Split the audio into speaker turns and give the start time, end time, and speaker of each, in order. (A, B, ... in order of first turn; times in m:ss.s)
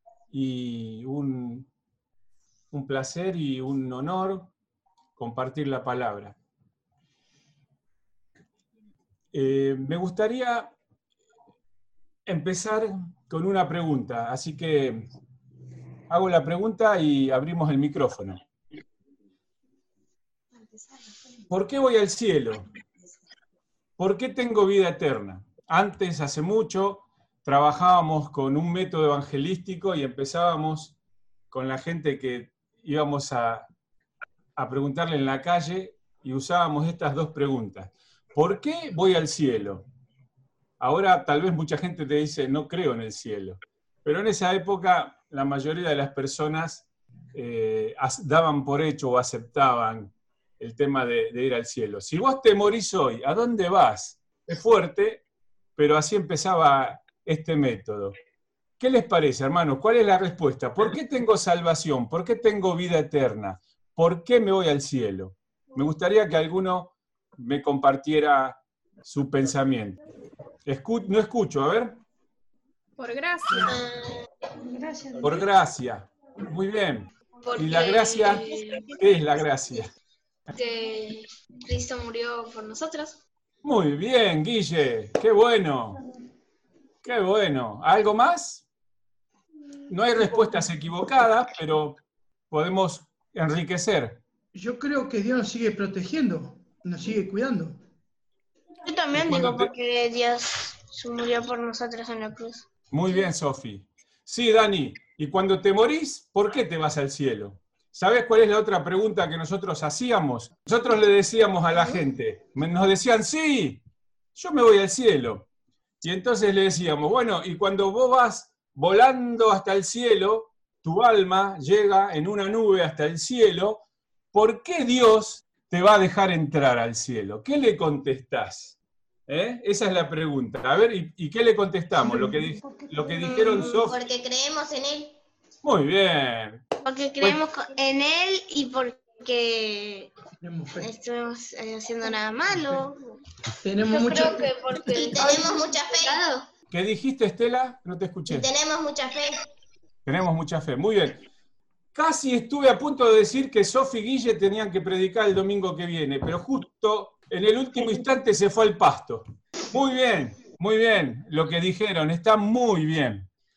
0:00.3-0:01.7 A
0:02.7-0:04.5 A
0:05.2-0:06.4 A
0:09.3-0:10.7 A
0:12.3-0:15.1 A
0:16.1-0:18.4 A
0:21.5-0:22.7 A
0:24.0-0:31.0 A
0:31.5-0:33.7 A
0:34.6-0:39.9 A
0:40.8-0:55.2 A
0:55.8-0:58.2 A
0:58.8-1:10.0 A
1:10.7-1:12.0 A
1:13.0-1:14.1 B
1:15.2-1:19.9 A
1:17.4-1:18.9 B
1:20.5-1:23.2 B
1:23.6-1:26.0 A
1:27.0-1:28.6 A
1:29.9-1:32.0 A
1:32.5-1:34.2 A
1:34.5-1:37.8 C
1:38.8-1:42.6 B
1:39.1-1:39.7 A
1:39.2-1:39.5 C
1:42.9-1:53.8 A
1:54.4-1:55.5 A
1:56.0-2:14.0 A
2:12.0-2:12.5 C
2:13.4-2:15.2 D
2:15.6-2:16.6 A
2:16.8-2:20.1 B
2:20.4-2:20.9 C
2:20.8-2:23.2 B
2:23.6-2:24.5 C
2:23.9-2:26.4 B
2:24.8-2:26.2 D
2:26.7-2:28.5 A
2:28.3-2:29.4 D
2:30.1-2:31.2 A
2:31.9-2:43.3 A